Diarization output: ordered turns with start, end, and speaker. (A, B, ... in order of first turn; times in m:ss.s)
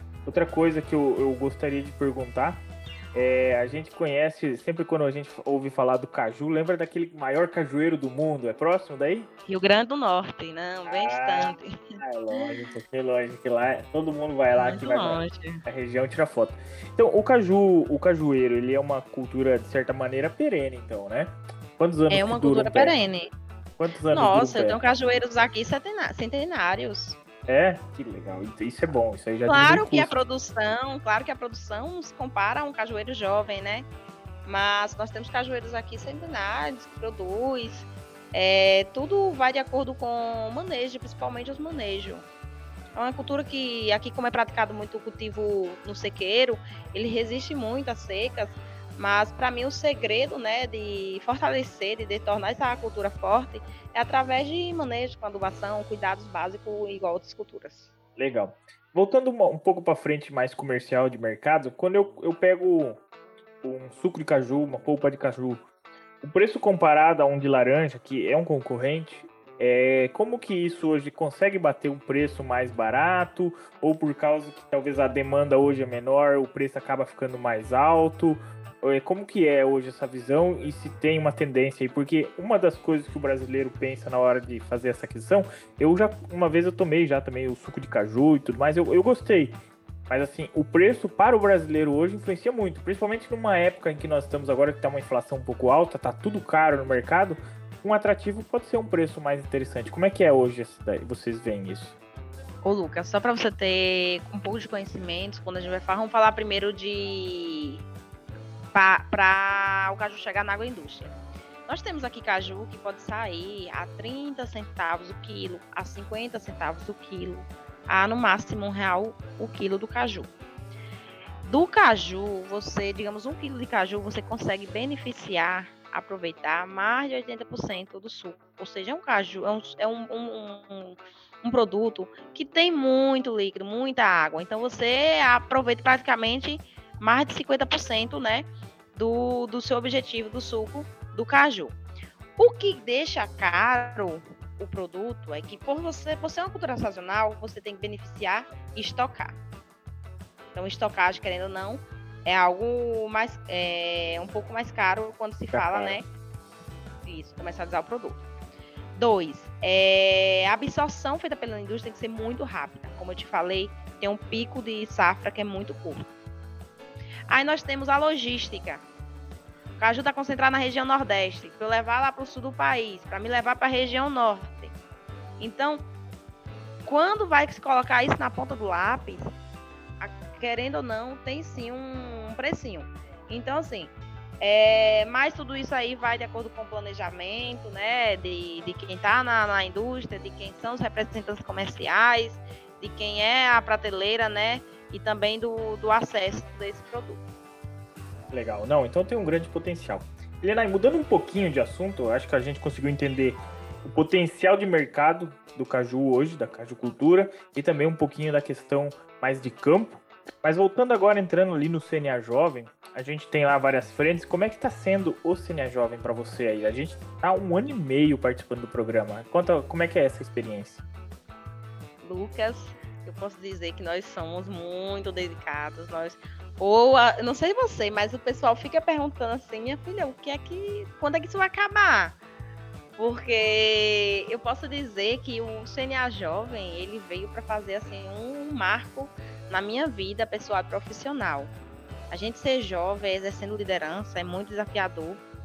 0:00.2-0:09.3 A
0:09.5-0:12.5 B
0:10.9-0:22.9 A
0:14.6-0:15.6 B
0:22.1-0:23.3 B
0:23.8-0:24.8 A
0:24.1-0:27.2 B
0:27.5-0:30.1 A
0:29.4-0:33.9 B
0:34.4-0:42.2 B
0:43.0-0:57.9 B
0:58.2-1:03.0 A
1:03.6-1:05.6 A
1:06.2-1:42.0 A
1:42.6-1:47.8 B
1:48.7-2:00.3 B
2:01.4-2:21.8 B
2:22.4-2:29.4 B
2:30.5-2:36.1 B
2:35.5-2:36.0 A
2:37.0-2:38.2 B
2:38.9-2:46.1 B
2:47.3-2:48.8 B
2:49.8-2:54.7 B
2:55.4-2:55.8 B
2:56.8-2:59.3 B
3:00.0-3:17.2 B
3:18.3-3:40.8 A
3:42.0-3:52.2 B
3:53.0-4:01.5 B
4:02.1-4:05.2 B